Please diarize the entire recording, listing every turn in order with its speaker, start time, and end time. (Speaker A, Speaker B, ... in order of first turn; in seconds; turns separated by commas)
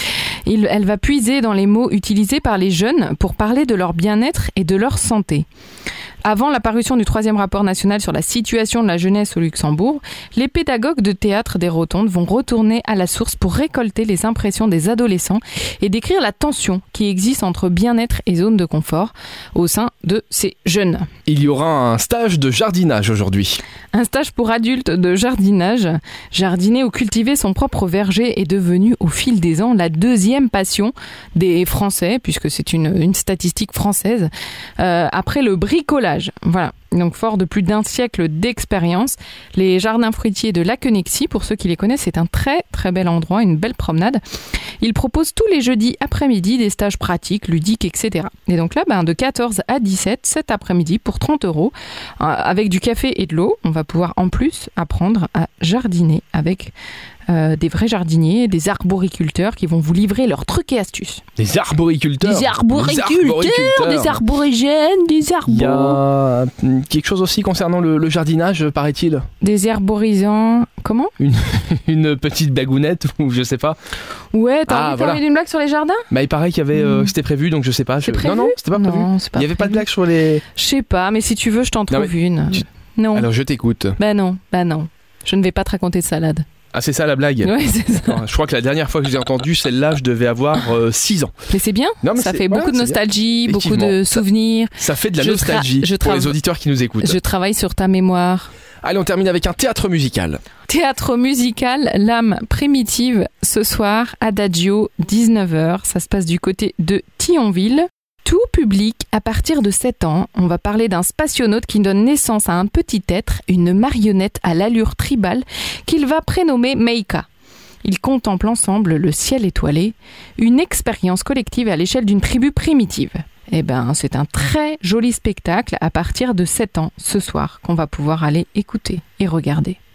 Speaker A: 0.5-5.5, Speaker A: 6.2-21.1, Speaker B: 21.3-23.6, Speaker A: 23.9-44.2, Speaker A: 44.8-56.7, Speaker A: 57.3-61.2, Speaker B: 61.4-64.2, Speaker A: 62.2-66.0, Speaker B: 65.4-69.2, Speaker A: 69.4-71.1, Speaker B: 71.2-73.8, Speaker A: 74.3-76.1, Speaker B: 74.7-75.2, Speaker B: 76.1-80.4, Speaker A: 76.7-77.1, Speaker A: 78.0-79.8, Speaker A: 80.5-83.3, Speaker B: 81.9-82.6, Speaker B: 83.1-84.0, Speaker A: 84.0-86.4, Speaker B: 86.7-91.3, Speaker A: 87.4-88.2, Speaker A: 91.5-96.4, Speaker B: 92.0-94.2, Speaker B: 94.8-97.2, Speaker A: 97.0-98.5, Speaker B: 98.8-100.4, Speaker A: 100.7-117.3, Speaker A: 117.8-129.8